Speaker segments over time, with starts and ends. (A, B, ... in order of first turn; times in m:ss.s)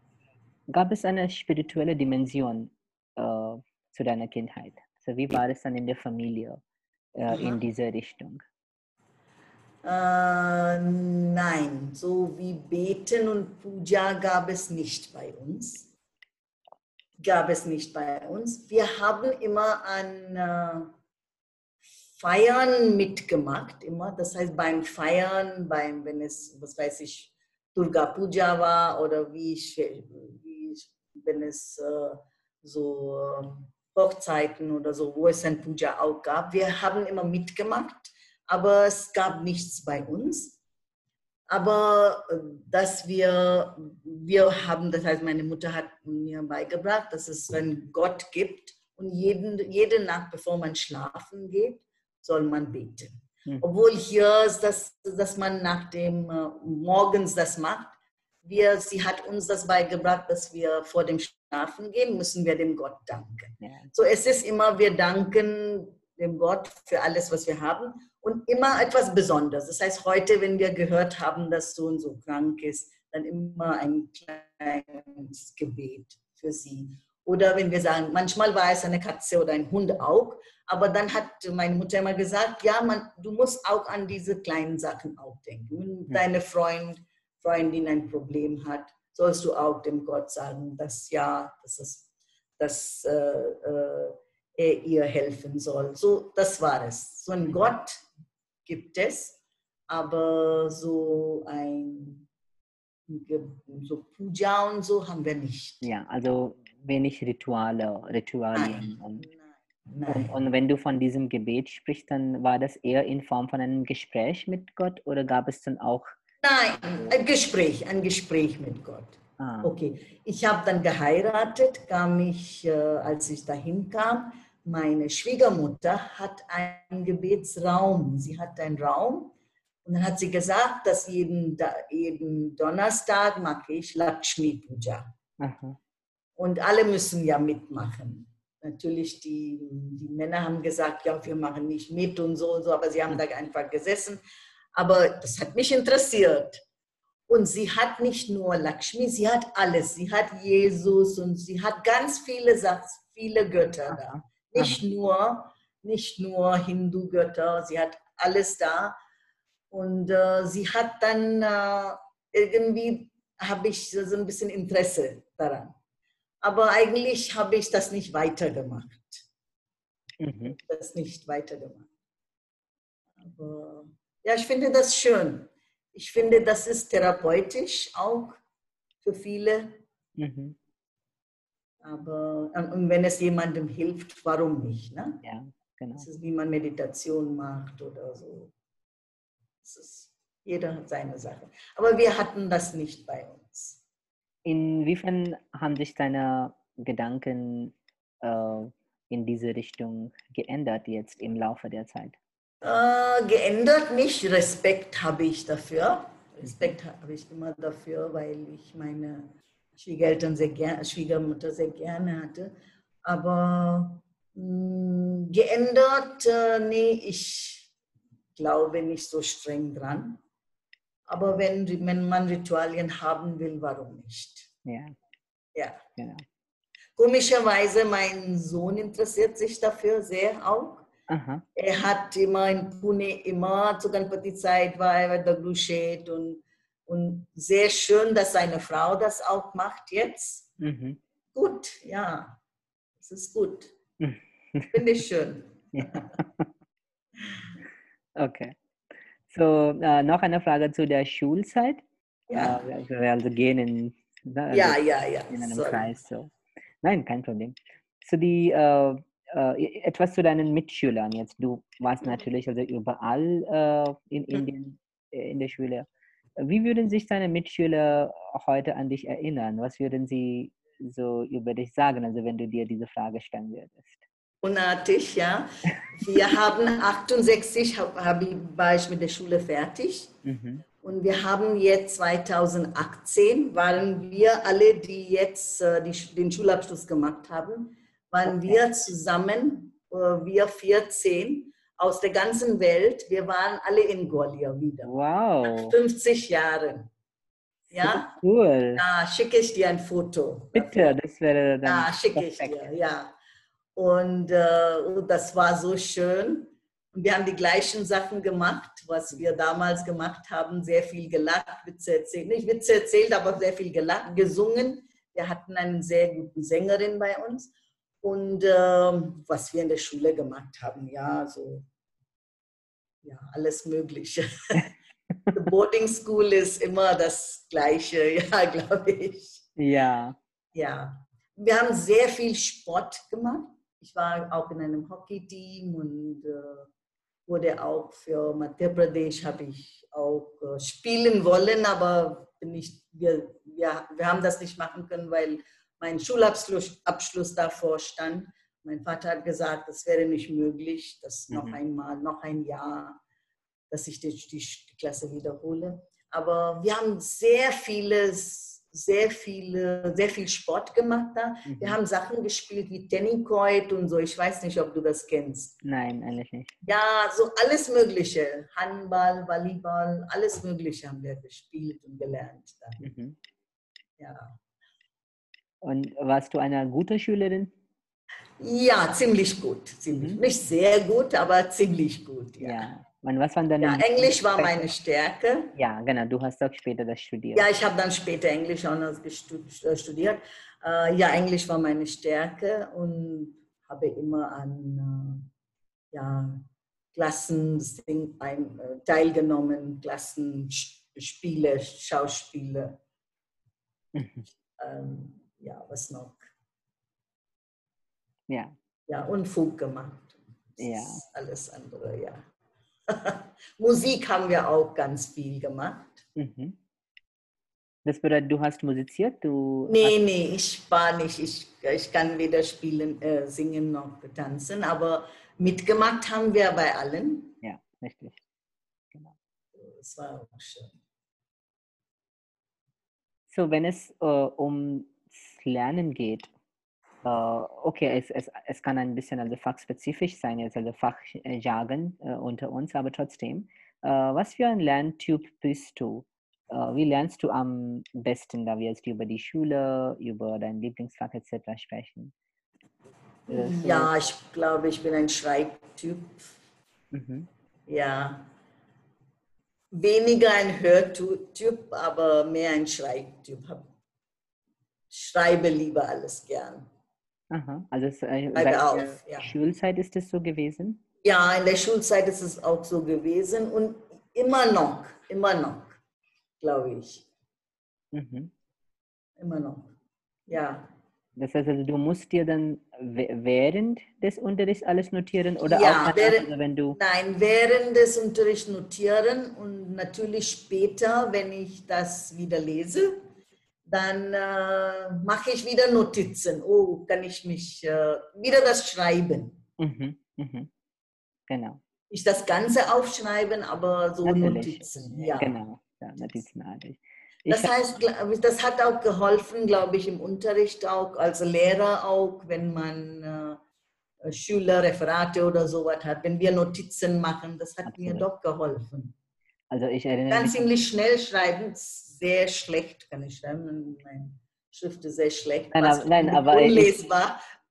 0:00.7-0:06.6 A
0:07.1-0:08.4 A
0:07.3-0:07.6 B
0:09.8-0:15.9 B
0:17.2-0:20.9 B
0:22.2-0:40.6 B
0:41.5-1:32.0 B
1:03.6-1:03.9 A
1:32.6-1:38.0 B
1:38.6-1:39.4 B
1:39.9-1:42.2 B
1:43.1-1:45.8 B
1:45.8-1:49.2 A
1:48.5-1:50.3 B
1:50.0-1:56.1 A
1:56.4-2:09.3 B
1:59.4-1:59.7 A
2:09.8-2:15.1 B
2:15.4-2:15.8 A
2:16.4-2:24.2 B
2:24.8-2:26.6 B
2:27.3-2:39.0 B
2:33.9-2:34.8 A
2:39.7-2:45.7 B
2:46.4-2:49.2 B
2:50.2-2:50.6 A
2:50.4-2:51.9 B
2:53.2-2:58.4 B
2:59.0-2:59.8 B
3:00.2-3:00.6 A
3:01.8-3:05.2 B
3:05.2-3:06.1 A
3:06.0-3:08.5 B
3:09.6-3:13.8 B
3:14.4-3:22.2 A
3:22.6-3:32.5 B
3:26.4-3:26.7 A
3:33.0-3:37.7 B
3:38.4-3:40.2 B
3:41.1-3:44.5 B
3:44.6-3:44.9 A
3:45.5-3:45.8 B
3:46.0-3:46.2 A
3:47.0-3:50.9 B
3:51.1-3:51.4 A
3:51.5-4:00.5 B
4:00.6-4:01.0 A
4:01.3-4:02.4 B
4:03.0-4:03.7 B
4:04.0-4:04.8 A
4:04.7-4:06.0 B
4:05.7-4:06.5 A
4:08.2-4:08.5 A
4:09.3-4:11.8 A
4:12.3-4:12.6 B
4:12.3-4:25.9 A
4:14.5-4:15.9 B
4:26.4-4:34.0 A
4:34.4-4:40.1 B
4:40.2-4:40.6 A
4:40.8-4:54.9 B
4:48.2-4:48.6 A
4:54.8-4:55.7 A
4:55.4-4:56.9 B
4:57.7-4:58.8 A
4:57.7-4:58.1 B
4:58.8-5:00.9 B
5:00.5-5:02.7 A
5:01.6-5:03.1 B
5:03.8-5:17.5 B
5:18.0-5:21.6 B
5:23.0-5:24.7 B
5:25.3-5:29.4 B
5:29.6-5:30.2 A
5:30.5-5:36.7 B
5:37.3-5:53.0 B
5:51.3-5:51.6 A
5:53.7-6:05.5 B
6:01.4-6:01.8 A
6:05.6-6:06.5 A
6:06.6-6:12.8 B
6:12.8-6:13.2 A
6:14.0-6:14.4 B
6:15.6-6:17.5 A
6:18.4-6:22.7 B
6:19.9-6:20.2 A
6:22.4-6:24.6 A
6:23.6-6:25.5 B
6:25.5-6:27.5 A
6:27.3-6:35.3 B
6:35.9-6:42.8 B
6:43.9-6:44.3 A
6:44.6-6:46.2 B
6:48.9-6:52.2 B
6:50.6-6:51.0 A
6:52.9-6:56.0 B
6:56.2-6:56.6 A
6:57.8-7:00.0 A
6:59.7-7:07.4 B
7:07.4-7:08.2 A
7:09.6-7:10.7 B
7:13.3-7:16.3 A
7:17.0-7:32.1 A
7:33.3-7:36.3 B
7:33.3-7:33.9 A
7:36.9-7:37.3 A
7:37.7-7:38.3 B
7:39.7-7:43.7 B
7:44.9-7:46.7 B
7:47.3-7:50.8 A
7:48.3-7:49.3 B
7:51.0-7:55.8 B
7:56.4-7:57.0 B
7:57.9-7:58.3 A
7:59.2-7:59.7 B
8:00.3-8:00.7 B
8:01.2-8:06.8 A
8:05.4-8:13.0 B
8:13.7-8:19.4 B
8:19.6-8:20.5 A
8:21.3-8:21.6 A
8:21.9-8:25.3 B
8:24.0-8:27.5 A
8:27.3-8:33.4 B
8:34.0-8:39.0 B
8:37.6-8:38.0 A
8:39.5-8:40.5 A
8:40.1-8:47.2 B
8:45.5-8:46.8 A